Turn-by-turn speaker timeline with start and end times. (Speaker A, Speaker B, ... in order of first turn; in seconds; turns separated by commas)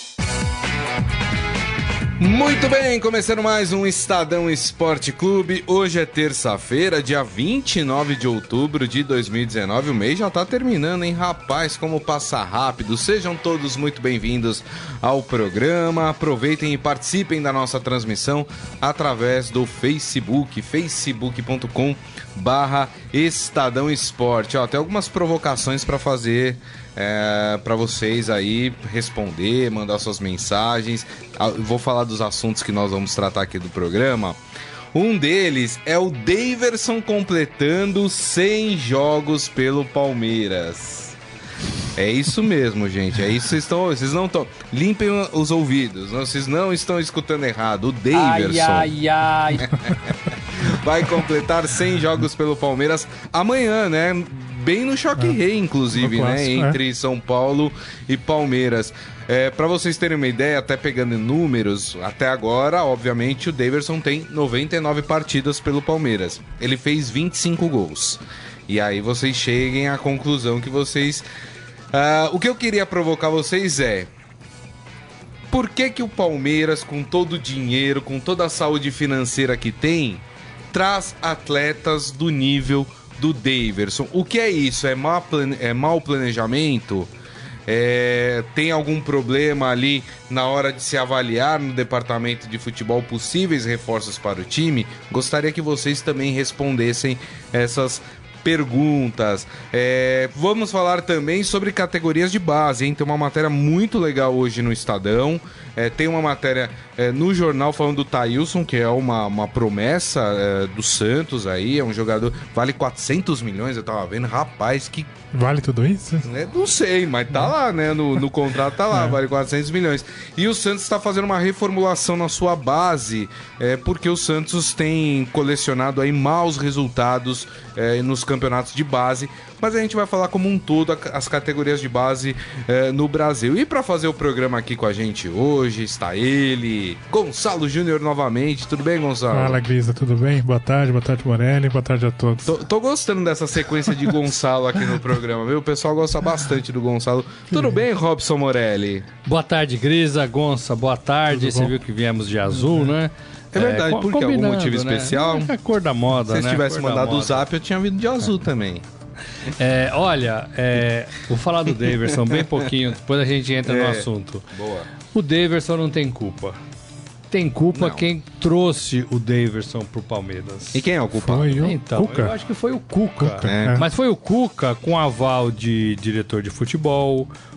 Speaker A: 2.2-34.4, Speaker A: 34.9-41.1, Speaker A: 41.9-48.9, Speaker B: 48.1-49.8, Speaker A: 49.5-71.2, Speaker C: 55.9-56.8, Speaker A: 71.9-74.1, Speaker A: 75.5-87.1, Speaker A: 87.7-115.1, Speaker C: 115.3-116.2, Speaker A: 116.2-139.6, Speaker C: 139.3-142.5, Speaker A: 142.4-149.1, Speaker B: 149.2-157.4, Speaker C: 151.3-151.7, Speaker C: 152.6-152.9, Speaker A: 153.5-155.5, Speaker A: 156.2-158.8, Speaker B: 159.5-164.4, Speaker A: 161.9-162.5, Speaker A: 163.6-164.9, Speaker B: 165.1-166.6, Speaker B: 167.3-170.8, Speaker A: 167.7-168.1, Speaker A: 170.7-171.7, Speaker C: 171.2-172.3, Speaker B: 171.6-177.3, Speaker C: 173.2-173.8, Speaker A: 173.4-173.8